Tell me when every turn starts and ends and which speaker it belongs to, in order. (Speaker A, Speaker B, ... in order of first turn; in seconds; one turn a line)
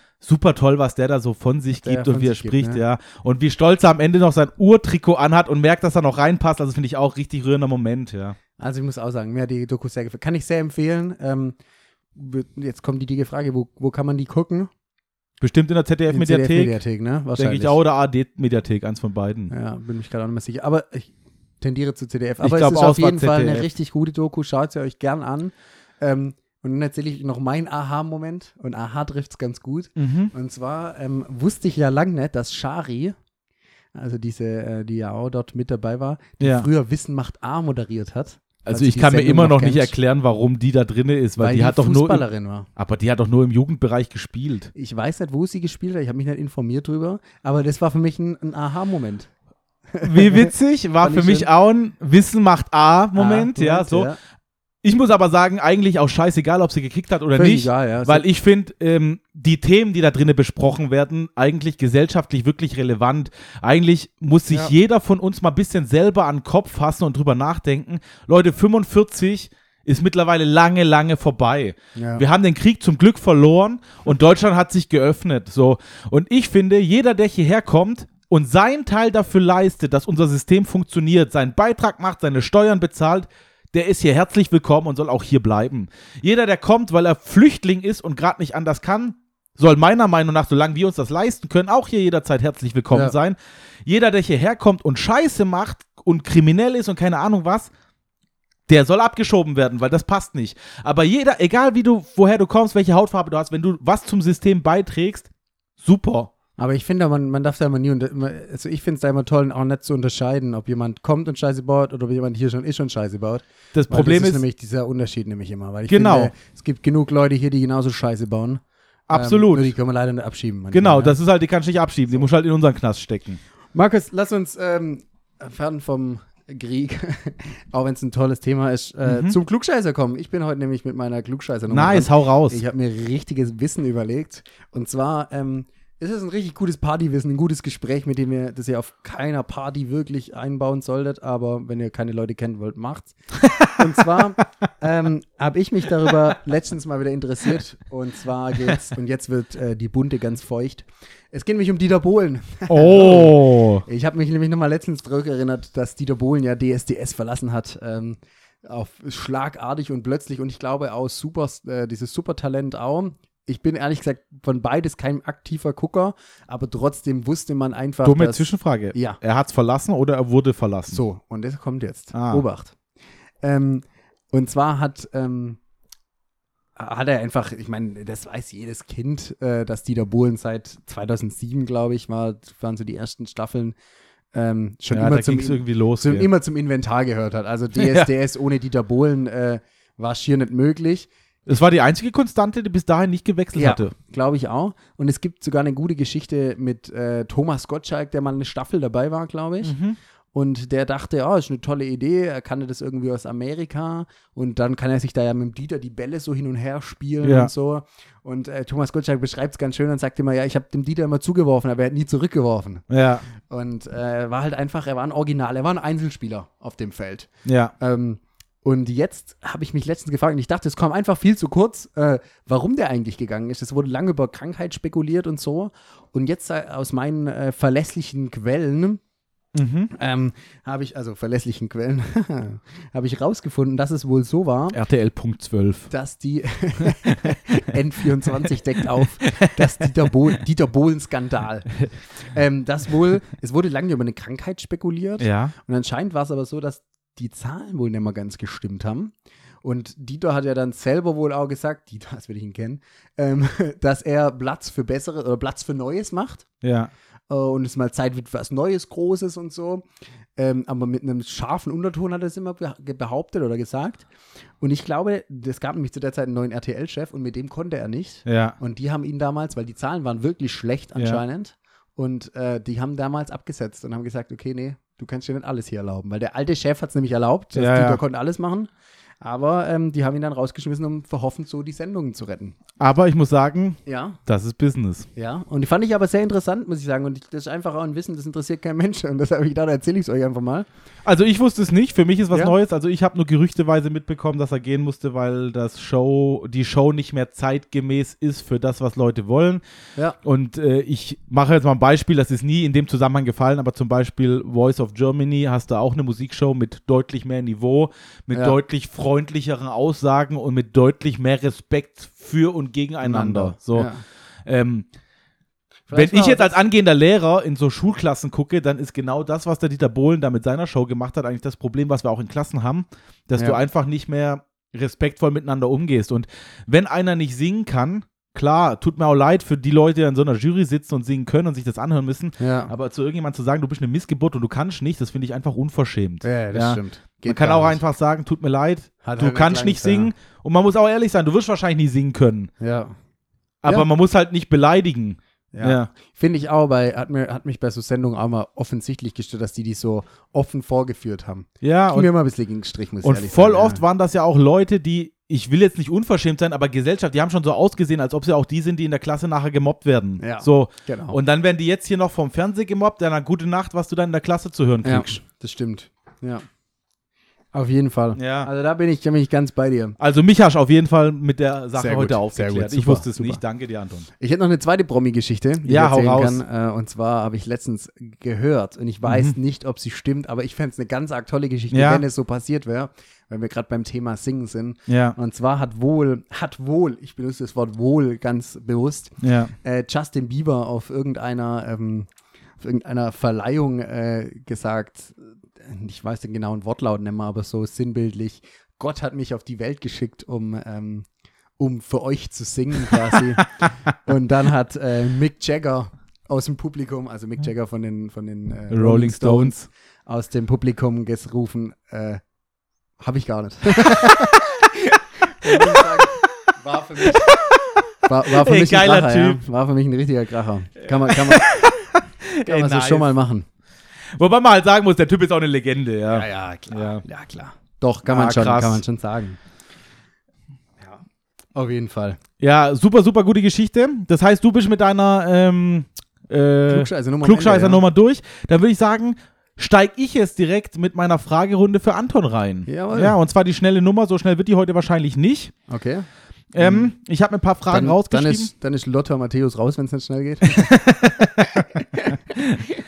Speaker A: 0.2-8.4
Speaker B: 1.8-2.8
Speaker B: 8.6-11.6
Speaker B: 12.2-14.7
Speaker A: 15.4-16.8
Speaker B: 16.1-17.8
Speaker A: 17.4-19.5
Speaker B: 19.5-33.1
Speaker A: 22.4-23.7
Speaker A: 30.0-30.3
Speaker B: 33.9-39.9
Speaker A: 36.4-36.7
Speaker A: 38.6-42.2
Speaker B: 41.4-42.7
Speaker A: 42.8-44.7
Speaker B: 44.7-49.3
Speaker B: 49.9-51.5
Speaker A: 50.0-54.1
Speaker B: 53.1-54.2
Speaker A: 54.8-97.7
Speaker B: 57.3-58.2
Speaker B: 72.0-72.2
Speaker A: 98.7-105.3
Speaker A: 105.8-106.3
Speaker B: 106.6-121.2
Speaker A: 113.7-114.4
Speaker A: 115.9-116.3
Speaker A: 119.1-119.7
Speaker A: 120.7-123.4
Speaker B: 123.7-169.2
Speaker A: 129.1-129.4
Speaker A: 131.7-132.6
Speaker A: 152.7-153.8
Speaker A: 168.0-171.0
Speaker B: 170.9-172.7
Speaker A: 172.1-172.4
Speaker B: 173.4-175.6
Speaker B: 176.8-183.7
Speaker B: 184.3-191.1
Speaker A: 184.9-186.3
Speaker A: 187.8-188.1
Speaker A: 191.4-193.9
Speaker B: 193.6-199.8
Speaker A: 199.6-200.0
Speaker B: 200.3-212.9
Speaker A: 207.2-207.5
Speaker A: 212.9-213.2
Speaker B: 213.4-229.0
Speaker A: 217.4-217.7
Speaker A: 229.5-229.9
Speaker B: 229.9-234.8
Speaker A: 234.7-235.9
Speaker B: 235.9-256.4
Speaker A: 236.8-237.6
Speaker A: 239.0-240.1
Speaker A: 245.2-245.5
Speaker A: 256.6-256.9
Speaker B: 257.3-259.9
Speaker B: 260.4-264.1
Speaker B: 264.6-278.7
Speaker A: 268.2-268.6
Speaker A: 270.9-271.2
Speaker A: 277.6-278.0
Speaker B: 279.2-282.6
Speaker A: 282.8-285.1
Speaker B: 283.9-284.2
Speaker B: 285.1-290.7
Speaker A: 291.1-299.6
Speaker A: 300.2-313.9
Speaker B: 313.0-314.0
Speaker A: 314.4-314.9
Speaker B: 315.9-316.6
Speaker A: 315.9-342.5
Speaker B: 332.4-332.7
Speaker B: 336.2-337.8
Speaker B: 339.0-340.1
Speaker B: 342.6-342.9
Speaker A: 343.6-345.9
Speaker B: 345.5-353.8
Speaker A: 351.6-352.1
Speaker A: 353.0-365.2
Speaker B: 360.2-361.2
Speaker B: 364.8-366.4
Speaker B: 367.5-370.0
Speaker A: 368.1-368.5
Speaker A: 370.0-374.1
Speaker B: 371.7-373.4
Speaker B: 374.2-392.1
Speaker A: 375.6-376.4
Speaker A: 379.1-379.4
Speaker A: 381.7-382.0
Speaker A: 384.9-385.2
Speaker A: 389.2-389.5
Speaker B: 392.6-401.1
Speaker B: 401.6-409.6
Speaker A: 403.1-403.4
Speaker A: 408.7-409.7
Speaker B: 410.1-412.2
Speaker B: 413.0-417.3
Speaker A: 413.9-414.7
Speaker A: 415.4-416.3
Speaker A: 417.0-419.4
Speaker B: 418.0-421.7
Speaker A: 420.9-423.1
Speaker B: 422.4-423.5
Speaker A: 424.1-427.0
Speaker B: 426.1-429.4
Speaker A: 428.1-428.8
Speaker B: 431.5-432.2
Speaker A: 432.4-445.5
Speaker B: 436.7-437.8
Speaker B: 442.7-443.2
Speaker B: 445.7-446.1
Speaker A: 446.5-448.5
Speaker B: 446.6-446.9
Speaker B: 447.7-452.4
Speaker A: 450.4-452.6